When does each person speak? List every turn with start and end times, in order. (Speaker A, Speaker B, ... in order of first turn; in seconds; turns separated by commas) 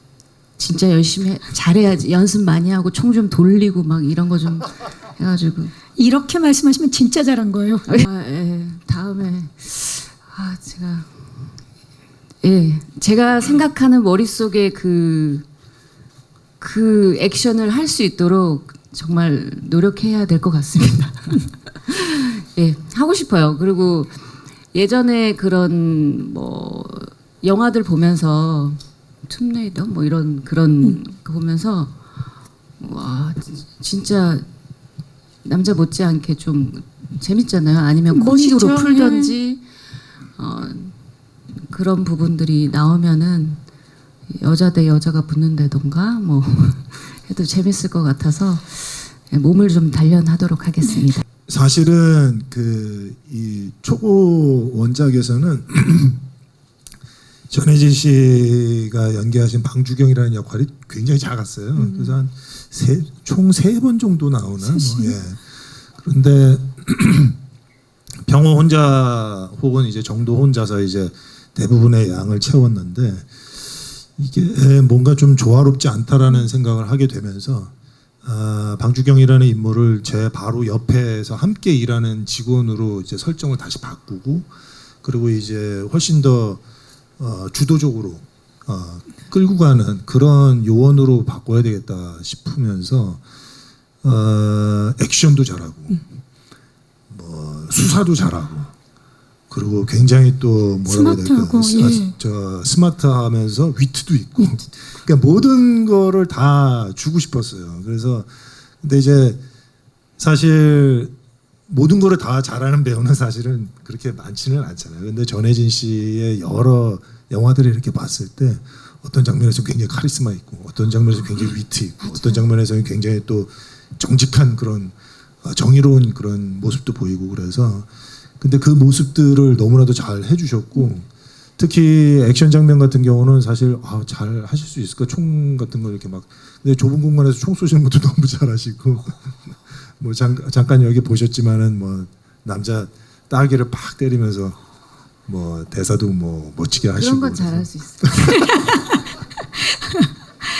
Speaker A: 0.6-5.7, Speaker B: 6.0-8.0, Speaker A: 7.9-11.1, Speaker A: 12.4-15.4, Speaker A: 16.6-24.1, Speaker A: 24.7-31.9, Speaker A: 32.8-34.4, Speaker A: 35.4-39.6, Speaker B: 38.1-39.3, Speaker A: 40.4-40.9, Speaker A: 41.6-43.6, Speaker A: 44.3-51.2, Speaker C: 51.5-56.2, Speaker C: 57.5-67.4, Speaker B: 61.8-62.1, Speaker B: 64.6-65.2, Speaker C: 68.2-73.5, Speaker C: 74.0-77.7, Speaker C: 78.2-84.5, Speaker C: 85.0-86.6, Speaker C: 87.2-93.2, Speaker C: 94.0-96.1, Speaker C: 97.1-98.7, Speaker C: 99.5-109.4, Speaker B: 100.9-102.1, Speaker C: 110.2-111.1, Speaker C: 111.7-127.9, Speaker C: 128.4-144.6, Speaker C: 145.2-148.4, Speaker A: 147.0-148.3, Speaker B: 148.3-148.8